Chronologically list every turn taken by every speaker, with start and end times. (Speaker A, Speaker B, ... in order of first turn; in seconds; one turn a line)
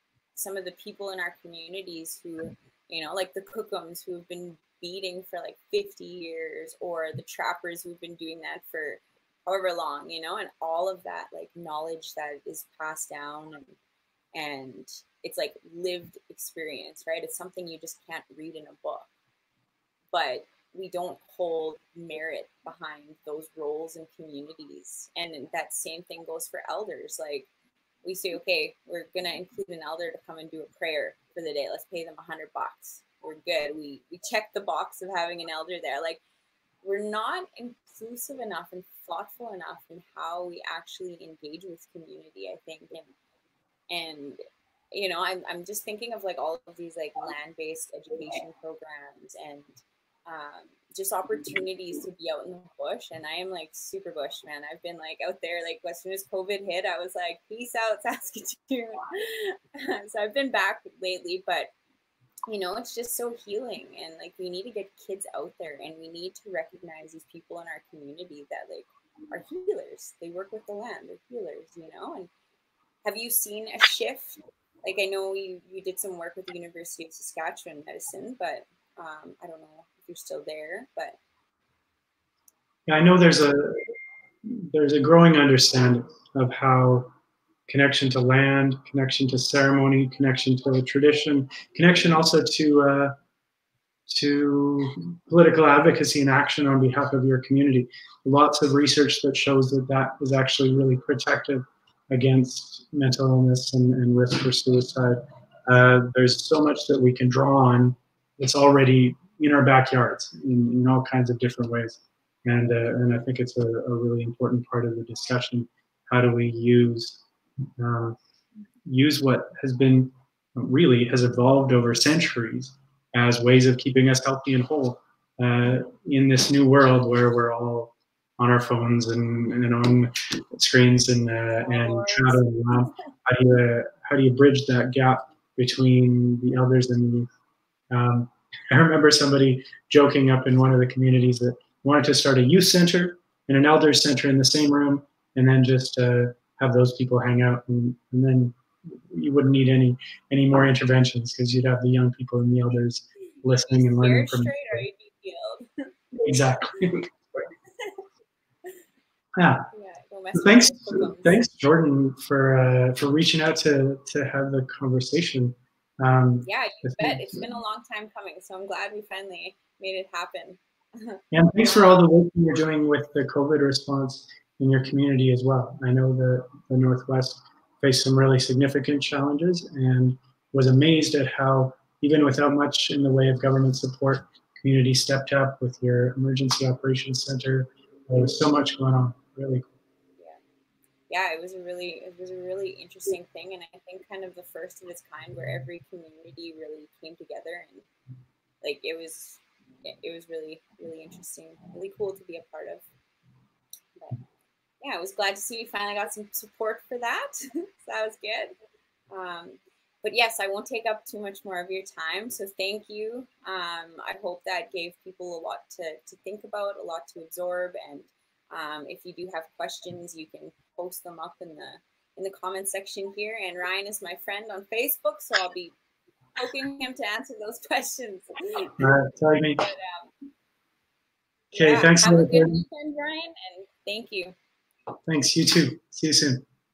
Speaker A: 0.4-13.8
Speaker A: 14.3-19.1
Speaker A: 20.1-27.5
Speaker A: 28.0-36.2
Speaker A: 36.8-43.1
Speaker A: 43.9-61.7
Speaker A: 62.5-72.3
Speaker A: 73.0-81.2
Speaker B: 82.9-83.8
Speaker B: 84.4-87.1
Speaker B: 87.7-93.1
Speaker B: 94.1-117.2
Speaker B: 117.8-118.2
Speaker B: 118.9-137.3
Speaker A: 131.6-132.4
Speaker B: 137.9-154.8
Speaker A: 153.6-156.2
Speaker B: 156.2-157.5
Speaker B: 159.4-159.7
Speaker A: 159.7-161.4
Speaker B: 160.3-167.5
Speaker A: 166.4-171.2
Speaker B: 171.3-189.7
Speaker A: 191.1-197.9
Speaker A: 198.6-202.8
Speaker A: 204.8-208.6
Speaker A: 209.1-225.7
Speaker A: 226.4-228.9
Speaker B: 228.8-229.7
Speaker A: 229.6-230.1
Speaker B: 231.5-232.6
Speaker A: 231.6-234.3
Speaker B: 235.1-236.4